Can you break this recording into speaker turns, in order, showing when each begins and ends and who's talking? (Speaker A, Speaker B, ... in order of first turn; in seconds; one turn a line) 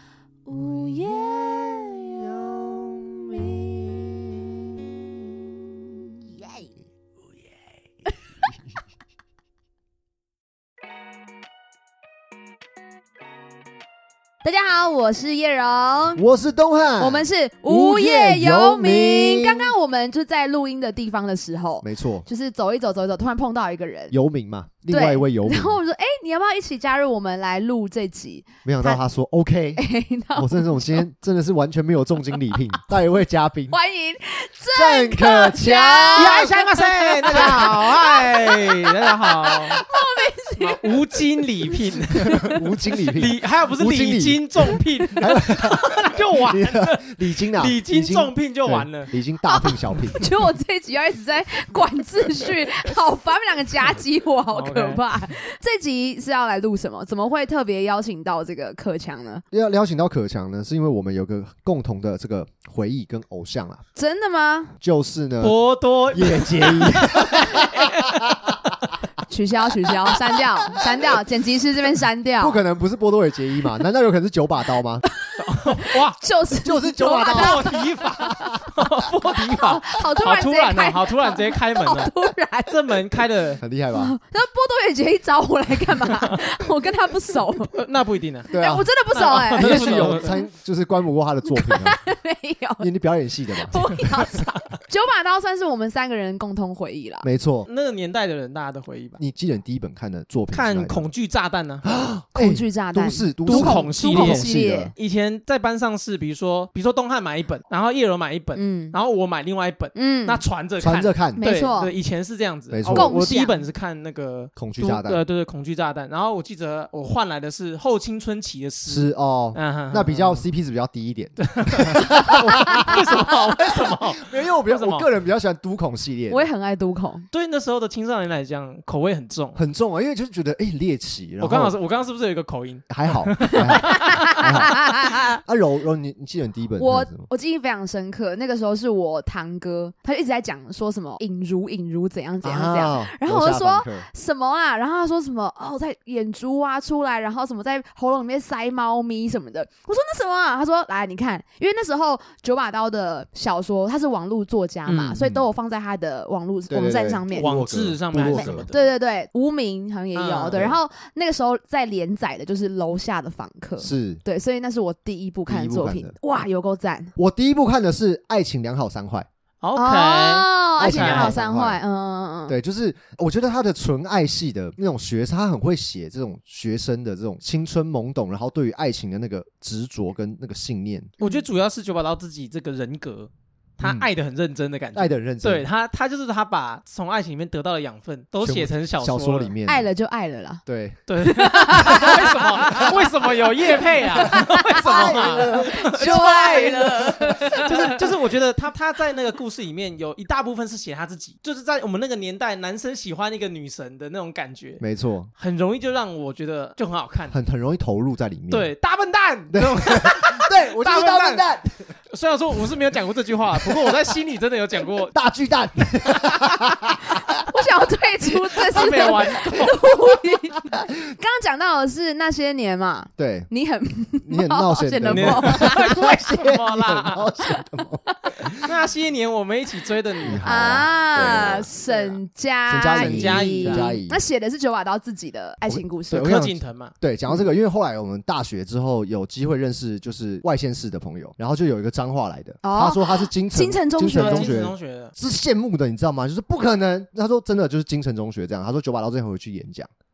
Speaker A: 0.5-2.0
Speaker B: 0.5-6.0
Speaker A: 14.4-16.2
Speaker B: 16.1-19.7
Speaker A: 17.0-24.1
Speaker B: 21.8-22.2
Speaker B: 24.1-25.8
Speaker A: 24.9-29.0
Speaker B: 28.6-33.8
Speaker A: 29.8-31.1
Speaker A: 33.7-40.9
Speaker B: 34.7-36.5
Speaker C: 36.1-39.8
Speaker B: 37.3-37.8
Speaker C: 40.6-42.5
Speaker A: 42.1-42.6
Speaker B: 42.3-50.2
Speaker C: 43.1-49.1
Speaker A: 49.4-59.4
Speaker C: 54.5-55.0
Speaker B: 59.5-63.8
Speaker A: 64.0-64.7
Speaker B: 64.8-65.6
Speaker C: 65.4-69.0
Speaker B: 66.1-68.6
Speaker A: 69.3-72.6
Speaker B: 70.2-71.2
Speaker B: 72.4-75.0
Speaker A: 75.2-78.4
Speaker C: 75.4-76.2
Speaker B: 76.6-79.1
Speaker C: 77.2-82.1
Speaker A: 79.4-83.0
Speaker C: 82.7-83.6
Speaker B: 83.6-84.1
Speaker A: 83.9-87.8
Speaker C: 87.7-88.5
Speaker B: 88.5-88.9
Speaker A: 88.5-90.4
Speaker C: 89.1-90.3
Speaker B: 89.5-92.0
Speaker A: 91.5-92.9
Speaker B: 92.8-94.4
Speaker A: 93.5-97.3
Speaker C: 94.2-94.8
Speaker B: 97.2-97.7
Speaker C: 97.7-99.2
Speaker B: 99.2-101.1
Speaker C: 100.5-101.9
Speaker B: 101.8-104.9
Speaker A: 102.3-104.9
Speaker C: 103.5-120.5
Speaker A: 108.5-109.0
Speaker A: 109.9-110.4
Speaker B: 110.8-111.4
Speaker A: 111.3-111.9
Speaker B: 112.7-113.3
Speaker A: 112.8-113.6
Speaker B: 114.5-115.2
Speaker B: 118.8-126.5
Speaker C: 121.4-125.1
Speaker A: 126.3-127.3
Speaker C: 127.3-129.6
Speaker B: 129.6-131.7
Speaker C: 131.4-134.5
Speaker B: 132.9-137.3
Speaker A: 133.5-135.4
Speaker A: 136.8-157.5
Speaker B: 142.4-144.1
Speaker C: 154.8-155.2
Speaker B: 156.7-158.6
Speaker C: 157.3-158.9
Speaker A: 158.2-167.1
Speaker C: 160.1-160.6
Speaker B: 160.5-160.8
Speaker B: 163.8-164.2
Speaker B: 165.5-166.2
Speaker B: 167.2-169.3
Speaker C: 169.6-171.3
Speaker A: 169.8-172.6
Speaker B: 170.8-171.8
Speaker B: 172.5-181.1
Speaker A: 181.2-181.4
Speaker C: 181.2-189.5
Speaker B: 183.8-184.1
Speaker B: 184.9-185.7
Speaker B: 188.4-189.9
Speaker A: 189.7-190.6
Speaker B: 190.7-191.0
Speaker C: 191.1-204.8
Speaker A: 191.2-193.0
Speaker B: 191.7-192.9
Speaker A: 194.2-198.0
Speaker B: 194.2-198.0
Speaker B: 204.8-205.3
Speaker C: 205.4-207.4
Speaker B: 207.3-208.7
Speaker C: 208.5-211.5
Speaker B: 209.5-211.8
Speaker C: 212.1-215.1
Speaker B: 213.6-213.9
Speaker B: 215.1-217.4
Speaker A: 217.2-226.2
Speaker B: 218.6-219.0
Speaker C: 218.7-219.8
Speaker B: 223.2-223.5
Speaker B: 224.2-228.7
Speaker C: 225.1-227.2
Speaker C: 228.6-230.4
Speaker B: 230.2-231.7
Speaker A: 230.4-236.3
Speaker C: 231.9-232.2
Speaker B: 232.7-234.2
Speaker C: 232.9-233.9
Speaker B: 235.7-249.9
Speaker C: 236.1-236.9
Speaker A: 242.6-244.5
Speaker C: 244.1-245.1